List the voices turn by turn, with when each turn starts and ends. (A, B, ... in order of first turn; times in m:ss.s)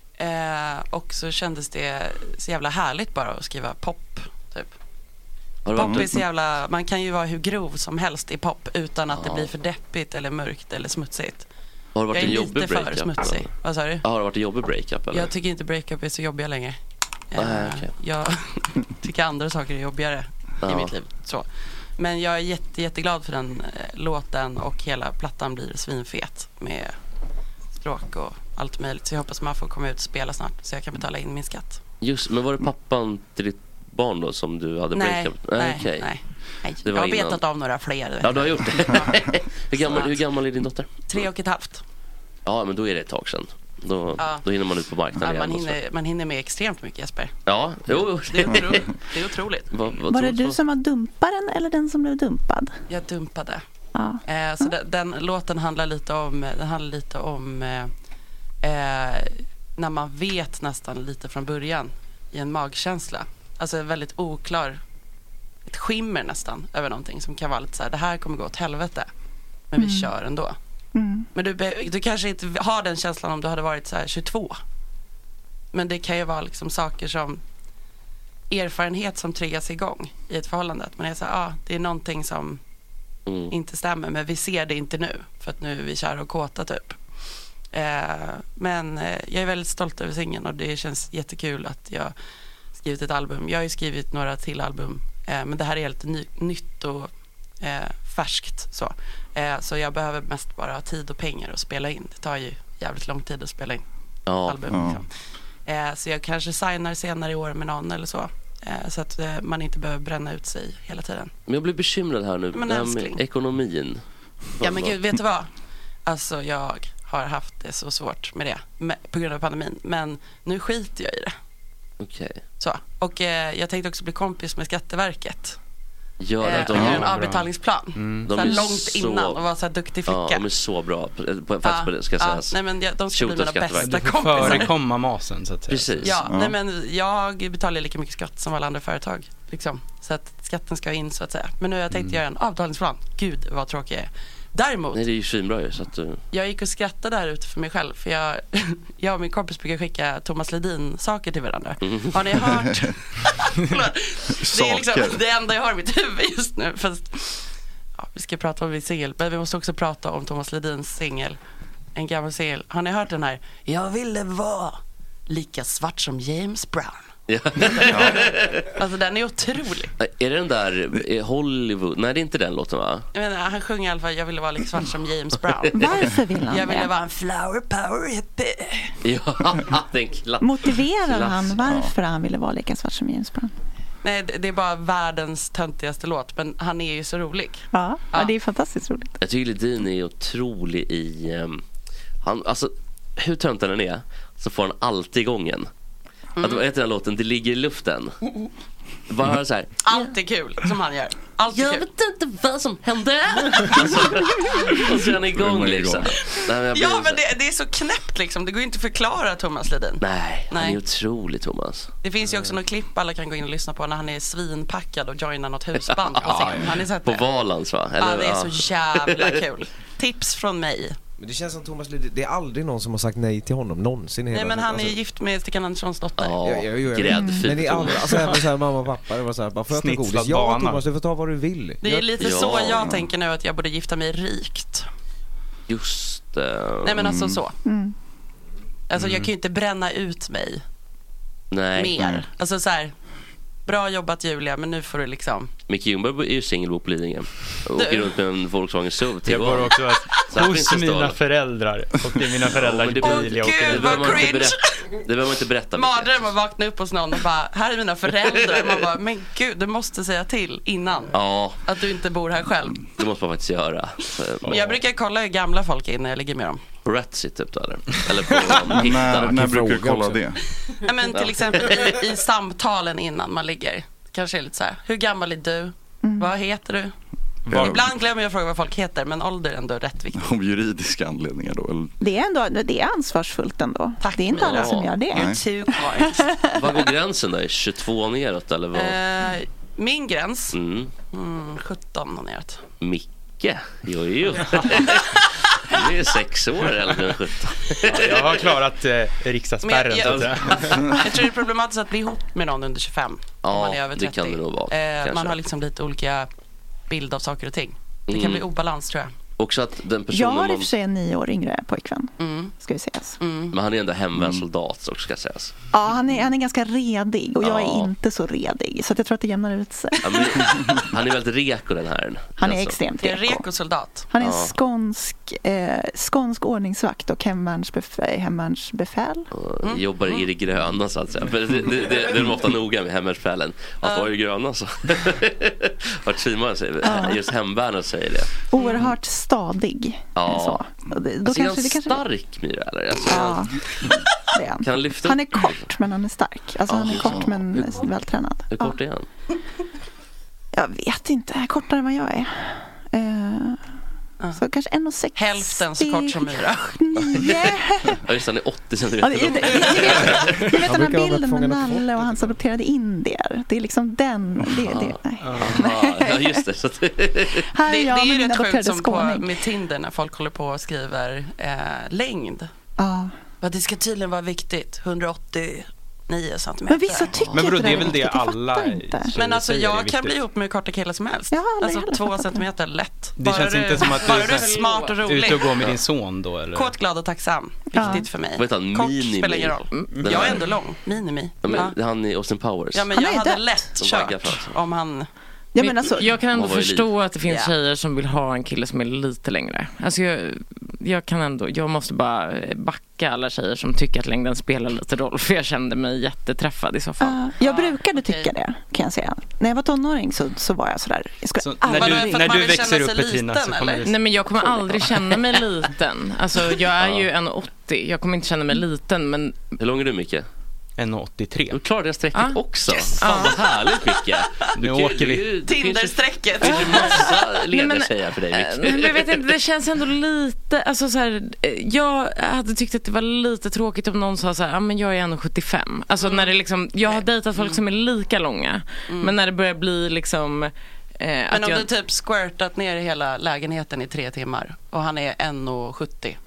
0:00.2-0:04.7 A
0:05.6-0:06.1 B
0:05.7-0:11.5 A
0:05.8-0:06.1 C
0:09.1-0:09.5 B
0:12.0-0:13.5 B
0:12.1-0:14.0 A
0:14.0-0:15.3 B
0:15.1-0:16.8 A
0:17.3-0:21.4 A
0:17.4-0:17.9 B
0:20.6-0:20.9 B
0:22.0-0:26.9 A
0:27.7-0:31.8 A
0:32.0-0:36.1 B
0:34.9-0:40.2 A
0:36.8-0:37.4 B
0:38.2-0:41.2 B
0:41.0-0:41.8 A
0:42.4-0:45.8 B
0:44.2-0:44.5 A
0:45.1-0:47.3 A
0:47.5-0:48.9 B
0:47.9-0:49.8 A
0:49.7-0:50.6 B
0:50.1-0:52.7 D
0:52.9-0:53.6 A
0:54.0-0:54.7 D
0:54.3-0:57.9 A
0:58.6-1:04.8 A
1:05.7-1:09.1 A
1:09.7-1:10.6 A
1:09.8-1:10.1 D
1:11.0-1:11.3 D
1:11.4-1:14.6 A
1:15.7-1:17.4 A
1:18.5-1:22.6 A
1:23.3-1:23.5 B
1:23.5-1:27.0 A
1:27.7-1:32.1 A
1:32.7-1:43.8 A
1:44.3-1:44.6 B
1:44.4-1:45.1 A
1:44.7-1:45.0 C
1:45.7-1:51.3 A
1:51.5-1:54.0 B
1:52.5-1:53.2 A
1:54.6-1:55.0 B
1:54.6-1:55.5 A
1:56.1-2:01.4 A
2:02.0-2:02.4 B
2:02.6-2:05.6 A
2:06.2-2:07.0 B
2:06.4-2:10.4 A
2:06.7-2:08.5 E
2:08.2-2:09.4 B
2:10.1-2:12.6 B
2:11.6-2:14.8 A
2:13.1-2:14.7 B
2:13.8-2:16.2 E
2:15.7-2:16.1 B
2:16.0-2:25.0 A
2:16.3-2:16.6 C
2:24.9-2:26.2 B
2:26.3-2:37.5 A
2:31.8-2:32.1 B
2:34.4-2:35.2 C
2:38.0-2:41.4 A
2:42.0-2:47.1 A
2:47.3-2:48.7 B
2:47.9-2:48.2 C
2:48.7-2:49.9 A
2:50.0-2:53.1 B
2:53.1-2:59.0 A
2:55.8-2:56.9 D
2:59.0-3:01.6 B
3:00.4-3:03.5 D
3:04.0-3:08.4 A
3:07.7-3:09.1 D
3:09.2-3:11.6 B
3:12.2-3:15.7 B
3:16.4-3:16.6 A
3:16.4-3:18.2 B
3:19.1-3:20.1 B
3:19.8-3:21.9 A
3:21.5-3:27.2 B
3:23.5-3:24.2 A
3:25.3-3:26.1 C
3:26.6-3:30.8 A
3:30.0-3:31.9 B
3:32.0-3:37.3 A
3:35.9-3:39.4 B
3:36.2-3:36.8 E
3:38.0-3:41.0 A
3:41.2-3:45.0 F
3:44.3-3:46.4 A
3:46.2-3:48.3 B
3:46.4-3:52.4 F
3:47.1-3:47.5 D
3:49.7-3:50.8 E
3:51.8-3:54.9 A
3:52.2-3:53.0 B
3:55.7-3:57.0 B
3:56.8-3:57.6 A
3:57.0-3:57.4 C
3:57.6-3:58.0 D
3:58.9-4:00.6 A
3:59.0-3:59.3 E
4:01.5-4:02.0 B
4:01.7-4:02.9 A
4:03.7-4:05.5 A
4:05.7-4:11.2 B
4:07.7-4:08.2 A
4:09.3-4:14.4 E
4:12.4-4:16.3 B
4:13.0-4:15.0 A
4:15.7-4:22.8 A
4:18.3-4:18.8 B
4:21.1-4:21.6 B
4:23.0-4:24.6 B
4:24.4-4:26.6 A
4:26.8-4:30.0 B
4:28.7-4:30.4 C
4:29.4-4:30.0 F
4:30.8-4:36.9 A
4:31.1-4:32.0 B
4:36.0-4:36.3 D
4:37.5-4:37.8 E
4:37.5-4:37.8 C
4:37.5-4:40.3 A
4:40.2-4:41.9 C
4:42.0-4:46.3 D
4:44.0-4:46.3 A
4:44.3-4:44.9 B
4:45.1-4:45.4 C
4:46.5-4:49.0 B
4:48.7-4:52.6 A
4:50.5-4:50.9 B
4:52.8-4:58.4 B
4:54.9-4:55.8 A
4:57.9-5:00.8 E
4:59.6-5:06.3 A
5:00.0-5:01.0 B
5:03.4-5:05.4 B
5:06.9-5:09.1 A
5:08.1-5:08.4 B
5:09.4-5:10.7 B
5:10.1-5:13.2 D
5:12.2-5:12.5 A
5:13.2-5:13.6 A
5:13.5-5:15.5 B
5:14.2-5:14.4 C
5:15.7-5:20.8 D
5:17.4-5:17.9 B
5:20.0-5:22.8 B
5:22.4-5:23.4 D
5:23.0-5:24.1 A
5:24.1-5:29.3 D
5:24.2-5:24.6 B
5:29.3-5:38.3 B
5:29.6-5:30.3 A
5:33.8-5:34.1 A
5:36.8-5:37.2 D
5:38.5-5:42.0 D
5:38.6-5:38.9 A
5:40.1-5:40.6 B
5:41.2-5:43.4 B
5:43.0-5:43.6 D
5:44.3-5:48.8 D
5:44.6-5:45.6 B
5:46.7-5:47.9 B
5:47.0-5:47.3 C
5:48.5-5:49.1 B
5:50.5-5:53.6 D
5:54.4-5:58.0 D
5:55.1-5:56.8 A
5:57.1-5:57.5 B
5:58.0-6:00.4 B
5:59.0-6:06.4 D
5:59.8-6:00.2 A
6:00.6-6:02.3 F
6:04.7-6:07.5 B
6:05.2-6:05.6 E
6:07.5-6:09.4 D
6:07.7-6:12.5 A
6:12.8-6:13.1 D
6:13.4-6:17.4 A
6:16.7-6:19.1 D
6:17.1-6:17.6 B
6:17.3-6:20.2 E
6:19.1-6:25.7 A
6:21.3-6:22.4 D
6:23.2-6:26.7 E
6:23.8-6:25.0 G
6:26.5-6:31.8 A
6:27.7-6:28.1 D
6:28.3-6:30.4 B
6:29.7-6:30.3 G
6:29.9-6:30.4 E
6:31.4-6:32.9 B
6:32.7-6:35.1 A
6:32.9-6:33.6 D
6:33.8-6:34.6 B
6:35.6-6:36.1 D
6:35.6-6:47.2 G
6:36.3-6:36.9 B
6:37.2-6:37.5 A
6:47.0-6:52.3 D
6:47.4-6:48.3 A
6:51.4-6:54.9 E
6:51.6-6:53.9 A
6:53.8-6:59.4 G
6:56.8-6:57.1 B
6:59.6-7:00.3 B
7:00.8-7:01.6 E
7:01.5-7:09.3 B
7:02.1-7:02.4 G
7:02.7-7:04.5 A
7:03.0-7:03.4 G
7:04.6-7:05.4 E
7:05.4-7:07.1 A
7:06.5-7:21.7 G
7:16.0-7:17.6 A
7:18.9-7:19.2 A
7:21.3-7:26.2 A